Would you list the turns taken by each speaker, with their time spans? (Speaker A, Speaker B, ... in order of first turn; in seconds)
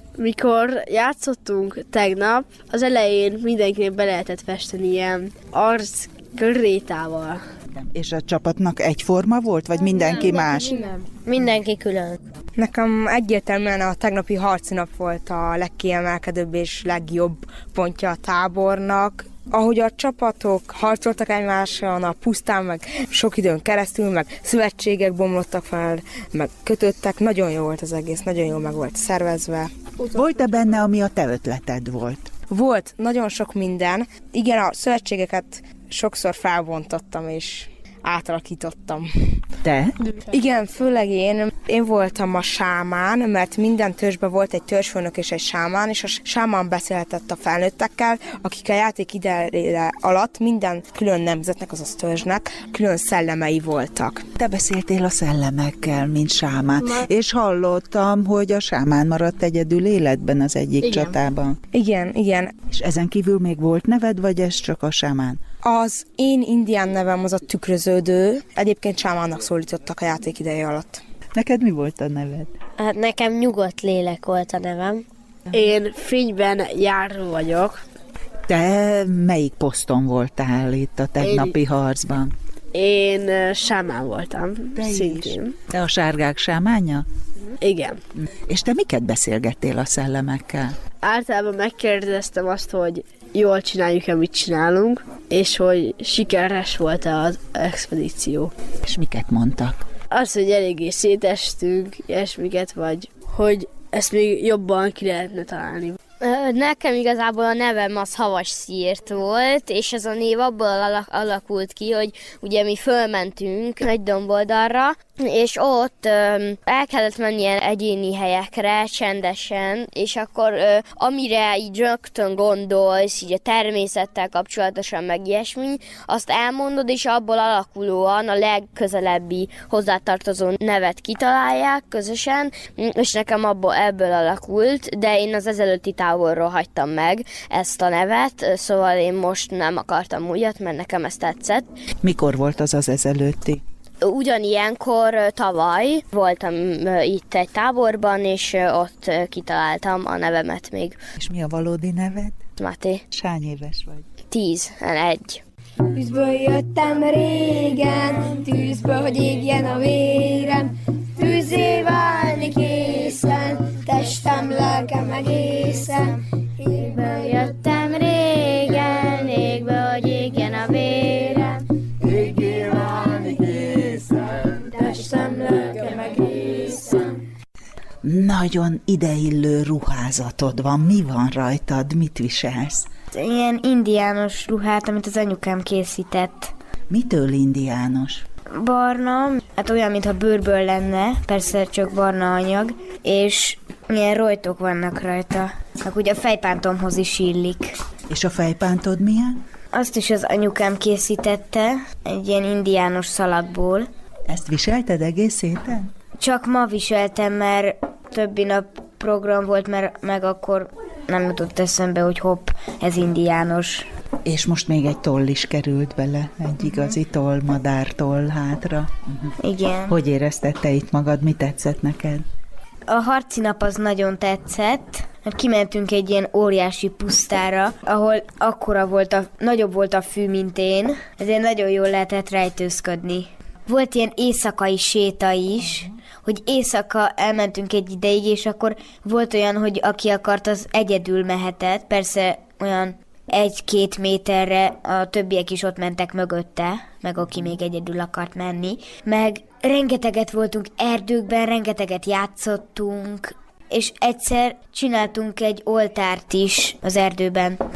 Speaker A: 0.2-7.4, 75.5-77.8, 81.2-81.5, 82.7-85.5, 87.6-88.0, 91.0-98.5, 100.1-106.0
Speaker B: 7.7-10.8, 30.1-32.3, 39.6-40.0, 54.4-61.6, 62.7-65.4, 71.3-72.5, 78.5-82.3, 84.8-87.1, 88.2-90.8, 98.8-99.9, 142.0-143.6, 151.2-152.4, 153.1-154.1, 178.0-182.9, 186.9-188.2, 198.1-199.4, 204.3-205.9, 214.2-219.3, 219.9-222.2
Speaker C: 12.6-29.7, 32.5-39.1, 40.3-54.2, 61.7-62.5, 65.6-71.0
Speaker D: 106.2-141.7, 144.0-151.0, 152.6-153.0, 154.3-155.4, 166.7-171.6
Speaker E: 155.9-166.2, 174.8-177.0
Speaker F: 183.1-186.5, 188.5-197.8, 199.7-203.9, 206.2-213.9, 219.4-220.0, 222.9-257.6